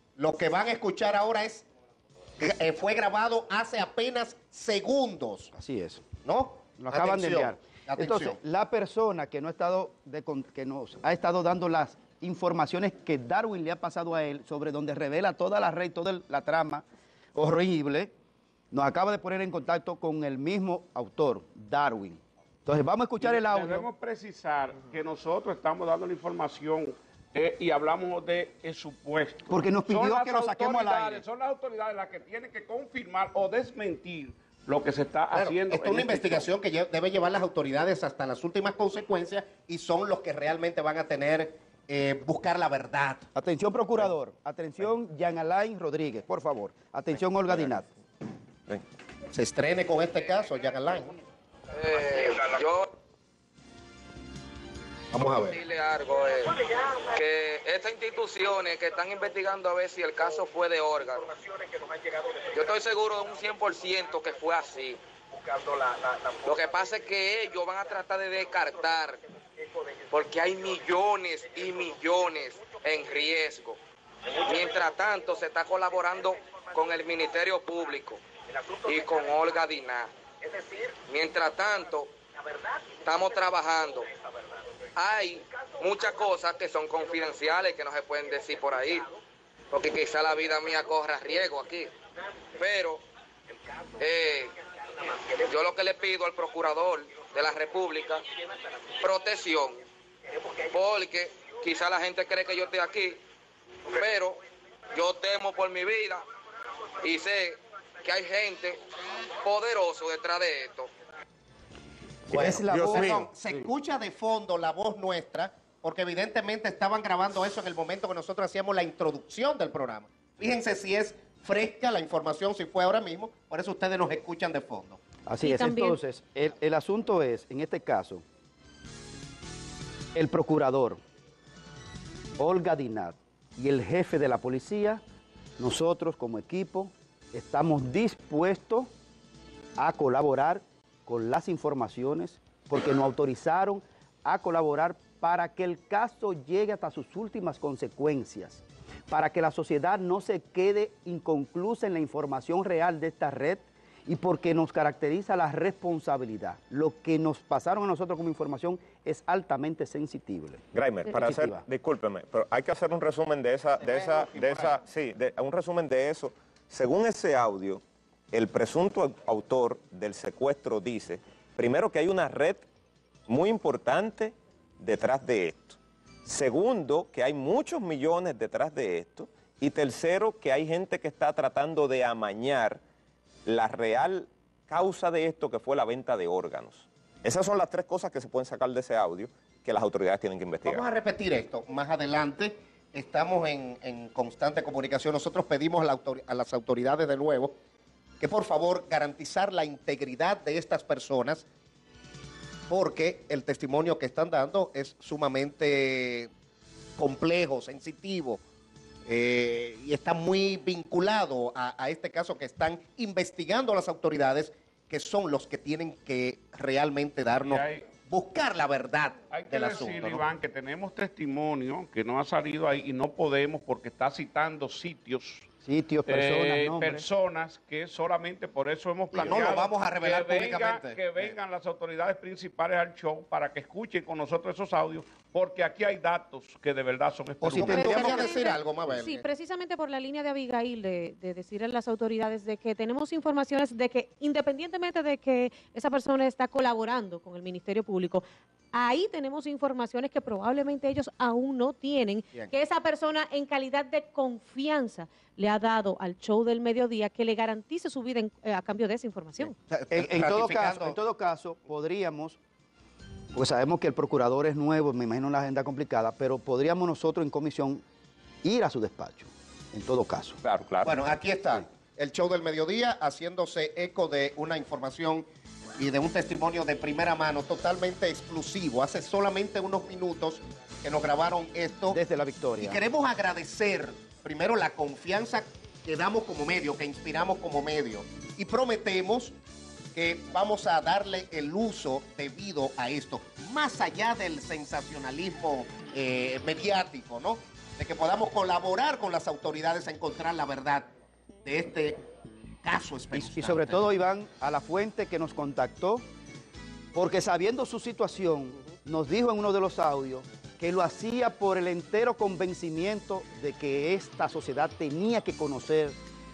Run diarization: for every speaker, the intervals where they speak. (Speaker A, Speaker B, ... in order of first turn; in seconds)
Speaker A: 0.2-1.6, 2.4-5.5, 6.2-8.4, 35.3-43.2, 49.3-51.2, 55.1-55.6, 112.3-125.0, 163.8-164.7, 190.6-197.5, 198.2-201.4, 202.7-206.3, 207.0-208.4, 209.1-220.2, 229.1-231.3, 237.4-239.2, 259.4-261.0, 270.8-275.2, 275.8-282.0, 282.6-289.3, 289.9-300.9, 301.4-302.0, 302.6-303.8
Speaker B: 5.5-6.0, 6.8-18.1, 18.7-23.9, 29.5-31.2, 43.3-47.9, 112.3-113.3, 125.2-128.2, 130.1-131.0, 132.4-135.0, 135.6-138.9, 139.8-161.6, 225.6-227.0, 237.4-237.9, 259.9-262.4, 263.3-267.8, 268.4-270.4, 281.9-282.8, 303.1-306.0, 306.9-316.0
Speaker C: 23.2-36.5, 217.4-217.8, 219.3-225.5, 226.1-238.2
Speaker D: 51.8-52.9, 55.5-56.5, 57.1-61.3, 62.5-65.0, 66.4-69.2, 70.1-73.8, 74.4-78.2, 78.8-80.1, 81.1-82.1, 83.0-84.0, 85.0-89.0, 89.7-91.9, 92.6-93.0, 94.0-94.5, 95.3-98.2, 99.0-99.8, 100.6-103.2, 103.9-104.4, 104.9-106.2, 107.0-108.8, 109.4-110.9
Speaker E: 112.4-113.2, 160.7-172.7, 173.3-182.8, 183.4-190.8, 270.4-270.9
Speaker F: 125.4-126.0, 237.6-259.5